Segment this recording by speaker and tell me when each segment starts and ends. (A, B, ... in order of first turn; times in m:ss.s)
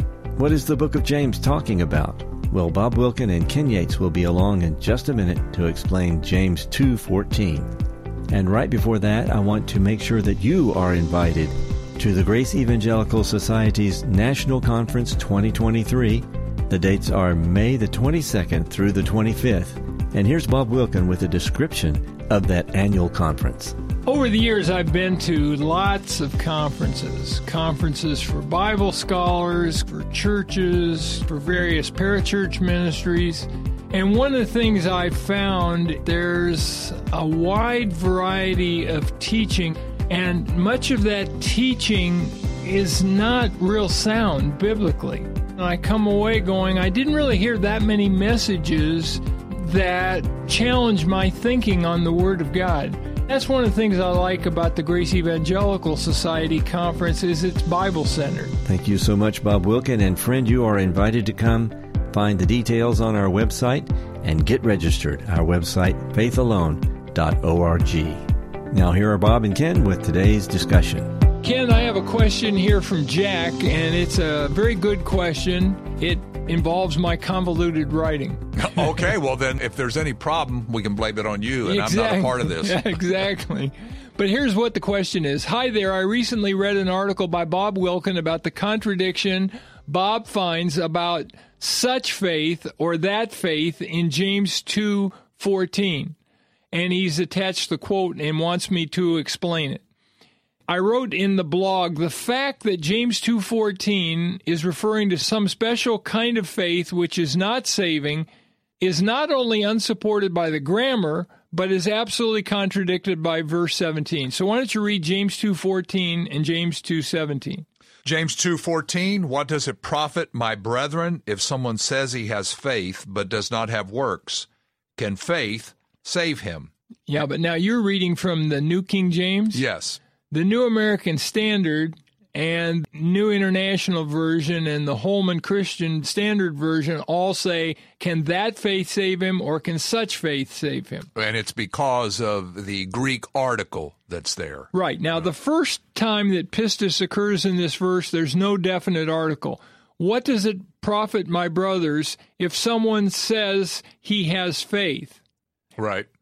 0:00.4-0:07.7 A
0:08.3-0:23.8 A
0:24.0-0:58.6 B
0:58.6-1:11.1 A
1:11.4-1:18.4 B
1:18.6-1:22.9 C
1:21.6-1:36.2 B
1:36.7-1:39.8 B
1:40.7-1:48.3 B
1:48.8-1:57.6 B
1:58.0-2:06.7 C
2:07.1-2:09.6 B
2:09.5-2:10.0 C
2:10.3-2:21.1 B
2:21.2-2:24.7 C
2:24.7-2:35.2 B
2:35.8-2:36.1 C